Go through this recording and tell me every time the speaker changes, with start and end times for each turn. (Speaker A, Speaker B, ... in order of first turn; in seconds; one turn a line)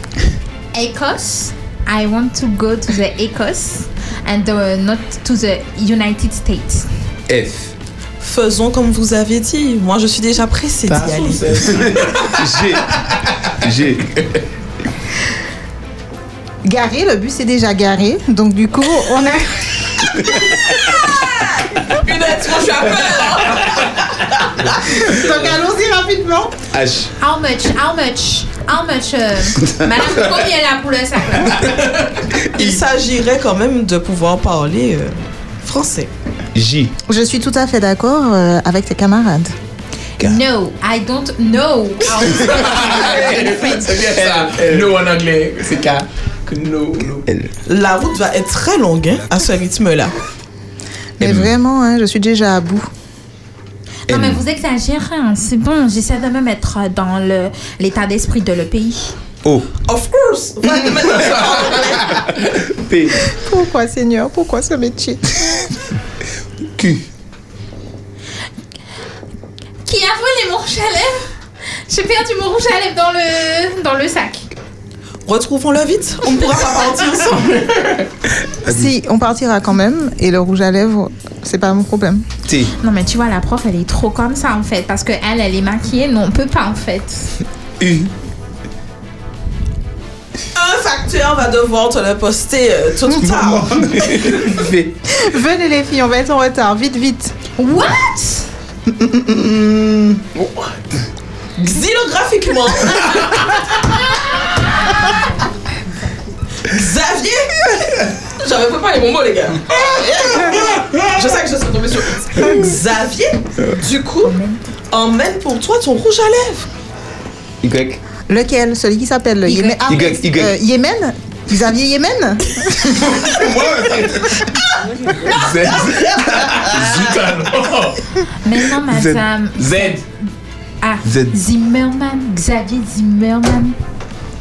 Speaker A: 0.7-6.9
Speaker B: 7.3-7.7
Speaker C: 8.2-11.7
Speaker D: 11.1-12.3
Speaker B: 11.5-12.9
Speaker B: 13.6-14.2
Speaker E: 16.6-19.9
Speaker C: 20.9-25.0
Speaker E: 25.0-26.5
Speaker B: 26.7-27.1
Speaker A: 27.2-31.8
Speaker B: 29.7-30.4
Speaker B: 31.4-31.8
Speaker B: 32.5-32.8
Speaker C: 32.5-36.1
Speaker B: 36.5-36.9
Speaker E: 37.1-39.5
Speaker A: 40.2-43.5
Speaker D: 42.4-47.2
Speaker B: 42.5-43.6
Speaker B: 44.1-44.9
Speaker B: 47.3-47.5
Speaker C: 47.7-50.1
Speaker E: 51.2-52.9
Speaker B: 51.2-51.5
Speaker B: 54.1-54.4
Speaker A: 54.1-59.1
Speaker B: 59.4-59.7
Speaker C: 59.9-62.2
Speaker B: 60.7-61.1
Speaker B: 62.3-63.2
Speaker E: 63.3-65.4
Speaker B: 66.8-67.0
Speaker A: 69.9-71.2
Speaker A: 71.9-74.5
Speaker C: 75.3-77.6
Speaker D: 77.6-78.0
Speaker B: 78.6-78.9
Speaker E: 78.7-82.3
Speaker B: 82.5-82.7
Speaker A: 82.8-87.3
Speaker B: 87.8-88.1
Speaker C: 90.5-94.4
Speaker B: 93.1-95.0
Speaker E: 95.1-97.3
Speaker A: 97.6-98.5
Speaker B: 98.9-100.2
Speaker D: 100.4-100.7
Speaker C: 101.6-103.6
Speaker C: 106.7-114.3
Speaker A: 114.2-114.7
Speaker C: 114.9-116.7
Speaker B: 117.6-118.0
Speaker E: 118.3-122.9
Speaker B: 119.6-120.5
Speaker B: 122.8-124.5
Speaker D: 125.3-128.0
Speaker B: 125.7-126.9
Speaker A: 128.4-130.0
Speaker B: 128.9-129.2
Speaker D: 129.6-130.0
Speaker A: 130.8-133.8
Speaker B: 131.0-131.4